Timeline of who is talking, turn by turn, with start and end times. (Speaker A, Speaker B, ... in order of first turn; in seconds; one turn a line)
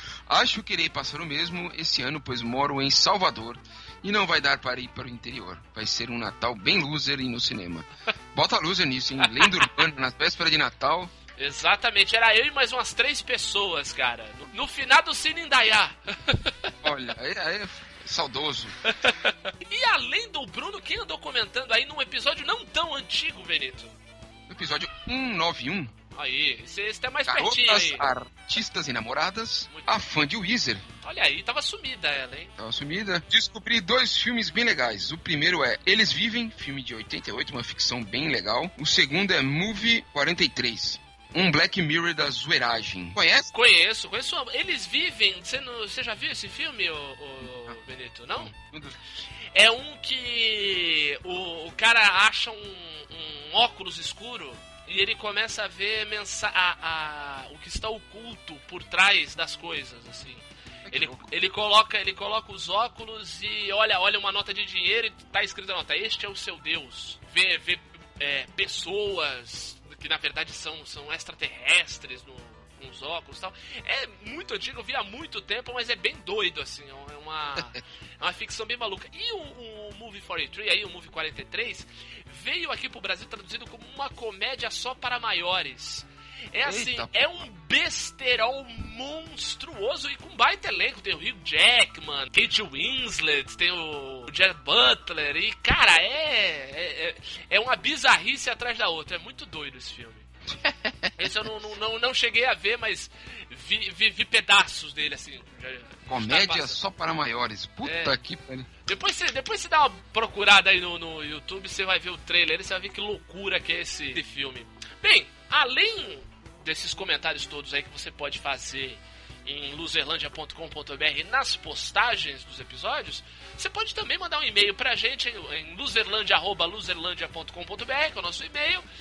Speaker A: 0.3-11.1
Speaker B: 11.4-16.7
Speaker A: 16.8-18.7
Speaker B: 18.9-23.9
Speaker A: 24.5-25.9
Speaker B: 26.1-28.1
Speaker A: 27.2-30.8
Speaker B: 29.7-30.0
Speaker B: 31.0-32.5
Speaker A: 32.6-43.5
Speaker B: 43.5-48.5
Speaker A: 48.4-48.9
Speaker B: 49.5-100.3
Speaker A: 60.8-61.3
Speaker A: 86.6-87.4
Speaker A: 100.6-101.3
Speaker B: 101.2-106.8
Speaker A: 106.1-108.7
Speaker B: 107.8-108.2
Speaker B: 108.9-128.8